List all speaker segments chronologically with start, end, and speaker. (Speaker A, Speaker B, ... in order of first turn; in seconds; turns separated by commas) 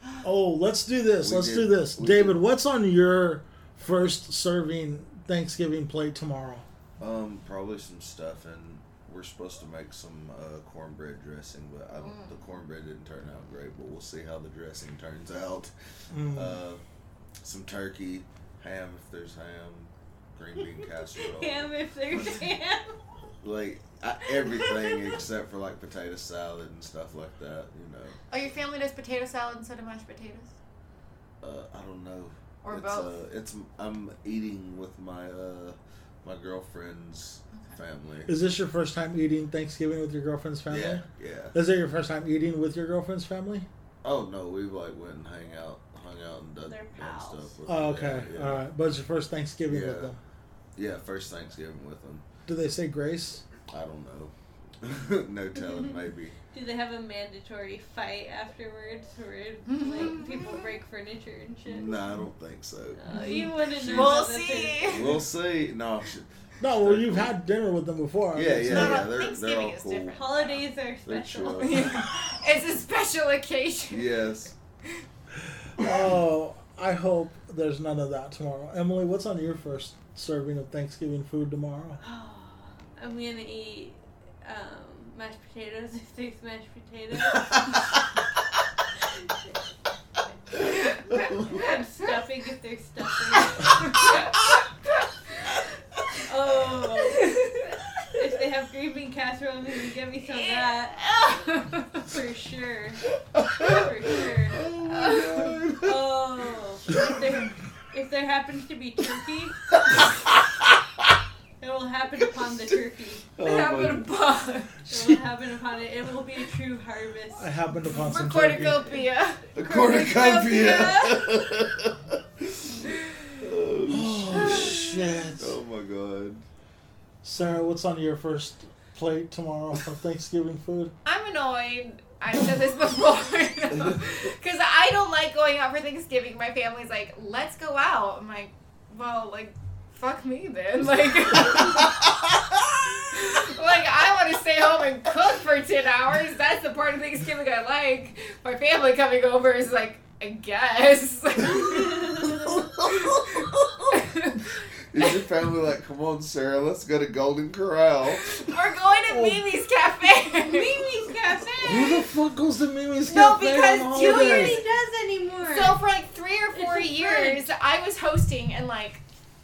Speaker A: 0.2-6.7, Speaker B: 1.2-2.4, Speaker B: 7.0-15.7, Speaker C: 12.0-12.4, Speaker A: 16.1-16.6, Speaker B: 16.3-16.8, Speaker B: 17.4-21.7, Speaker D: 20.8-22.9, Speaker B: 23.4-28.2, Speaker D: 24.4-25.1, Speaker C: 28.3-30.5, Speaker B: 31.4-38.3, Speaker C: 32.6-33.2, Speaker A: 38.3-43.7, Speaker B: 40.7-41.5, Speaker B: 44.0-48.6, Speaker D: 46.7-47.5, Speaker A: 47.7-50.2, Speaker B: 49.7-50.1, Speaker B: 50.8-52.2, Speaker A: 52.5-53.4, Speaker B: 53.7-56.4, Speaker D: 56.5-61.9, Speaker C: 59.7-60.7, Speaker B: 61.7-63.0, Speaker D: 62.9-65.2, Speaker C: 63.1-65.2, Speaker B: 63.9-64.2, Speaker B: 64.8-67.3, Speaker A: 66.6-69.1, Speaker B: 68.3-70.2, Speaker C: 68.6-70.7, Speaker D: 70.1-71.8, Speaker B: 71.0-72.1, Speaker C: 71.6-74.1, Speaker B: 73.9-74.5, Speaker A: 75.8-82.0, Speaker D: 82.0-87.7, Speaker B: 87.3-87.6, Speaker D: 89.0-89.6, Speaker C: 90.6-91.8, Speaker D: 91.1-94.3, Speaker B: 91.2-91.5, Speaker C: 93.4-94.3, Speaker D: 96.3-97.6, Speaker C: 97.0-97.8, Speaker D: 98.1-101.1, Speaker C: 100.3-102.1, Speaker D: 102.0-103.1, Speaker B: 103.3-106.1, Speaker D: 103.6-104.7, Speaker C: 104.9-105.6, Speaker D: 105.7-109.6, Speaker B: 109.9-111.1, Speaker D: 111.6-113.3, Speaker B: 113.4-114.1, Speaker C: 113.4-115.1, Speaker D: 114.9-117.5, Speaker A: 117.4-118.8, Speaker C: 118.0-119.5, Speaker B: 119.5-126.4, Speaker D: 119.6-121.4, Speaker A: 123.9-125.6, Speaker A: 127.2-130.9, Speaker C: 131.1-142.0, Speaker C: 143.1-152.3, Speaker D: 151.4-152.6, Speaker B: 152.2-154.0, Speaker C: 152.9-155.2, Speaker B: 154.9-158.4, Speaker C: 158.4-161.0, Speaker A: 159.1-159.4, Speaker D: 160.4-162.1, Speaker A: 161.6-164.6, Speaker C: 163.1-164.7, Speaker D: 163.8-165.8, Speaker C: 165.4-169.0, Speaker D: 166.5-167.5